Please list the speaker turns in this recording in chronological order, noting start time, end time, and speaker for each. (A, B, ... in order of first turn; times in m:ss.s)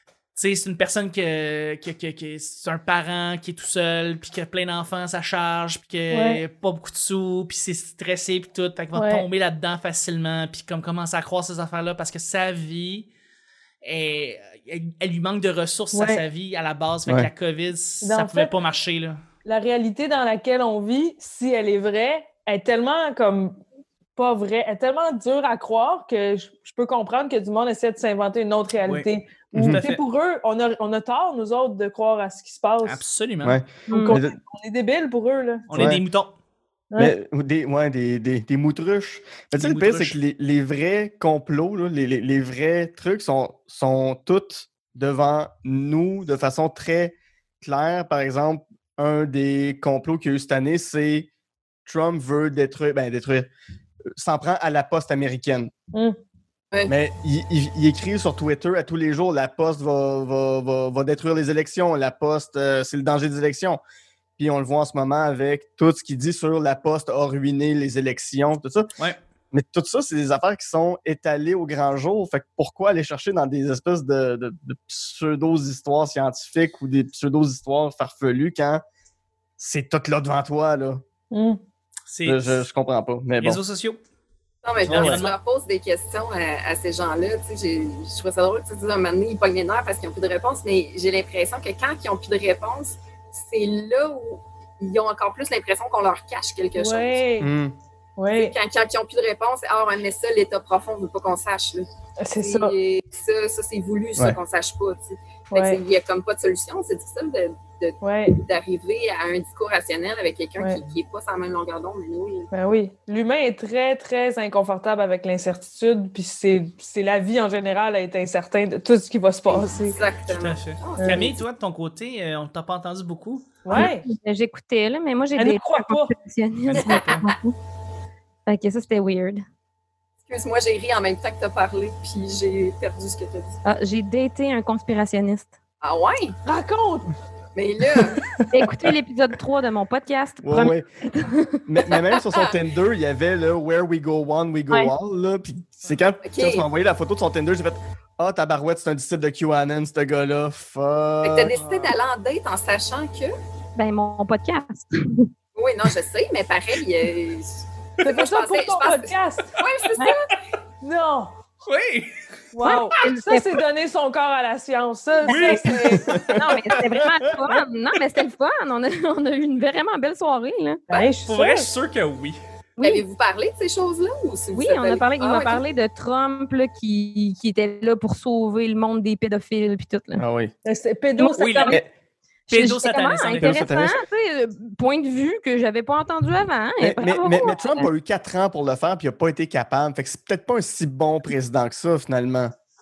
0:00.4-0:13.1 A
0:06.1-0:06.4 B
0:09.0-0:09.3 B
0:13.8-0:19.2 A
0:15.9-0:16.2 B
0:18.0-0:18.5 B
0:19.4-0:23.6 B
0:24.2-0:33.0 B
0:29.5-0:29.9 C
0:29.6-0:30.0 A
0:32.8-0:33.6 A
0:33.4-0:34.4 C
0:33.9-0:34.2 D
0:33.9-0:35.9 B
0:35.7-0:36.3 A
0:35.7-0:36.0 C
0:37.0-0:51.3 C
0:39.5-0:40.2 A
0:51.9-0:53.5 C
0:54.2-0:55.7 C
0:56.9-1:03.8 C
1:04.4-1:08.9 C
1:09.5-1:18.8 C
1:19.6-1:21.0 C
1:21.3-1:21.6 B
1:22.1-1:22.7 A
1:22.2-1:23.6 C
1:23.4-1:24.0 A
1:24.6-1:37.2 E
1:24.8-1:25.2 C
1:24.8-1:25.4 A
1:36.8-1:37.5 B
1:37.4-1:37.8 C
1:38.2-1:38.6 B
1:38.3-1:41.9 E
1:42.2-1:42.8 B
1:42.4-1:52.5 E
1:45.5-1:45.8 B
1:48.0-1:48.4 B
1:52.5-2:00.0 B
1:59.5-2:01.4 E
2:00.3-2:03.5 A
2:01.0-2:01.3 B
2:03.6-2:04.1 B
2:03.7-2:07.5 D
2:05.4-2:06.2 B
2:06.7-2:07.3 A
2:08.5-2:09.4 D
2:10.3-2:13.6 E
2:13.6-2:15.5 D
2:15.8-2:16.3 E
2:16.5-2:17.1 B
2:17.6-2:18.2 E
2:18.5-2:21.6 D
2:20.4-2:20.8 C
2:21.7-2:31.5 C
2:26.2-2:26.7 E
2:31.2-2:33.3 E
2:31.6-2:32.0 A
2:33.8-2:35.3 D
2:35.6-2:37.5 E
2:38.0-2:39.6 B
2:38.1-2:40.3 E
2:40.8-2:41.3 B
2:41.6-2:42.1 A
2:42.5-2:46.0 B
2:42.6-2:43.5 D
2:45.3-2:46.0 A
2:45.9-2:46.8 C
2:46.3-2:50.8 D
2:50.9-2:51.7 B
2:51.3-2:52.4 A
2:52.8-2:55.6 E
2:54.6-3:00.2 D
3:00.2-3:00.5 C
3:00.6-3:01.8 B
3:01.2-3:01.7 D
3:01.4-3:01.8 A
3:02.5-3:07.9 D
3:02.5-3:03.7 A
3:03.4-3:04.0 C
3:06.8-3:12.5 C